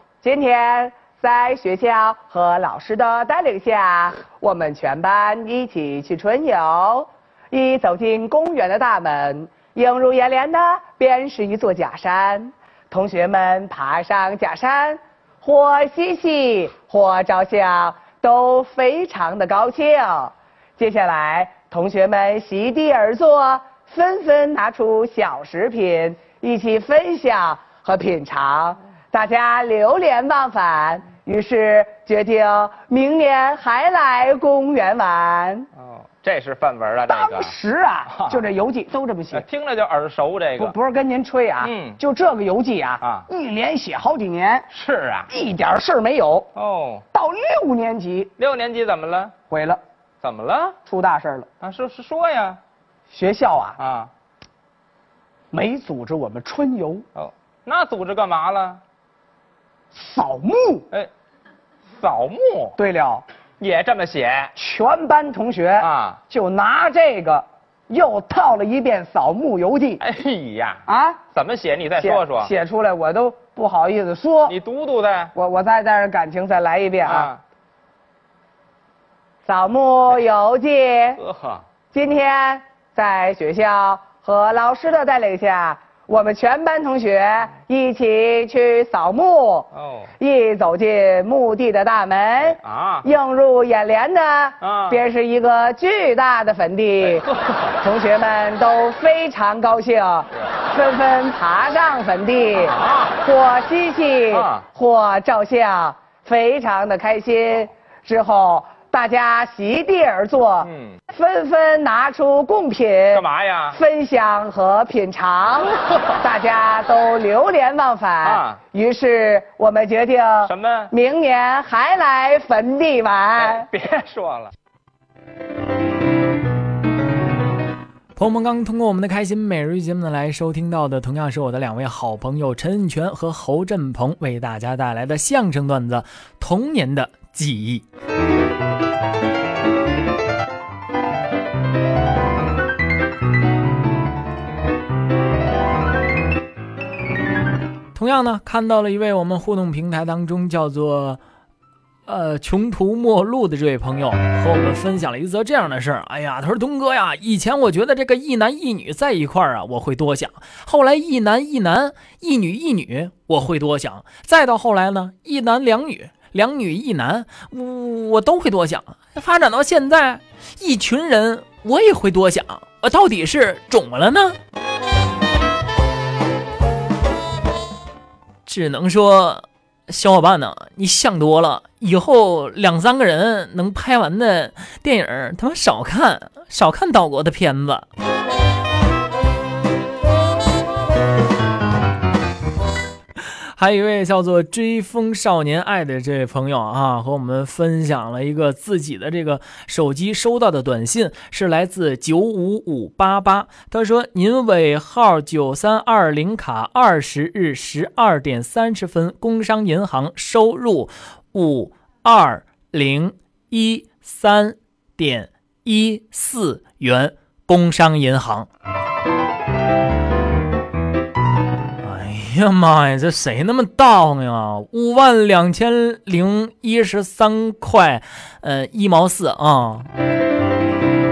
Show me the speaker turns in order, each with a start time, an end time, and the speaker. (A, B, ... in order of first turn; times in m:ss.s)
0:00.2-0:35.7 A
0:35.8-0:37.5 B
0:37.1-0:39.4 A
0:38.1-0:38.4 B
0:39.3-0:40.8 B
0:40.6-0:44.7 A
0:41.6-0:42.0 B
0:43.0-0:43.3 B
0:44.7-0:45.3 B
0:45.3-0:46.5 A
0:46.6-0:47.0 B
0:47.1-0:48.3 A
0:48.4-0:49.3 B
0:49.5-0:49.8 A
0:50.2-0:50.8 B
0:50.8-0:51.5 A
0:51.6-0:52.6 B
0:53.1-0:53.8 A
0:53.8-0:54.1 B
0:55.5-0:57.0 A
0:57.2-0:58.8 B
0:59.9-1:00.8 A
1:02.0-1:02.8 B
1:02.8-1:03.2 A
1:03.6-1:04.5 B
1:04.6-1:10.0 A
1:05.8-1:06.2 B
1:10.0-1:12.5 B
1:10.9-1:11.2 A
1:12.0-1:14.5 A
1:14.5-1:15.3 B
1:15.3-1:17.3 A
1:17.0-1:17.4 B
1:19.4-1:21.2 A
1:21.2-1:21.6 B
1:21.9-1:29.7 A
1:29.7-1:30.1 B
1:30.2-1:37.2 A
1:32.5-1:33.1 B
1:34.6-1:35.0 B
1:37.0-1:37.8 B
1:37.8-2:03.7 A
1:42.6-1:43.2 B
1:44.3-1:44.6 B
1:50.6-1:51.0 B
1:53.1-1:53.8 B
1:58.2-1:58.6 B
2:00.4-2:00.9 B
2:03.4-2:04.5 B
2:08.2-2:17.8 C
2:27.9-2:31.2 C
2:32.1-2:54.4 C
2:58.4-3:07.8 C
3:13.6-3:38.5 C
3:41.8-3:49.9 C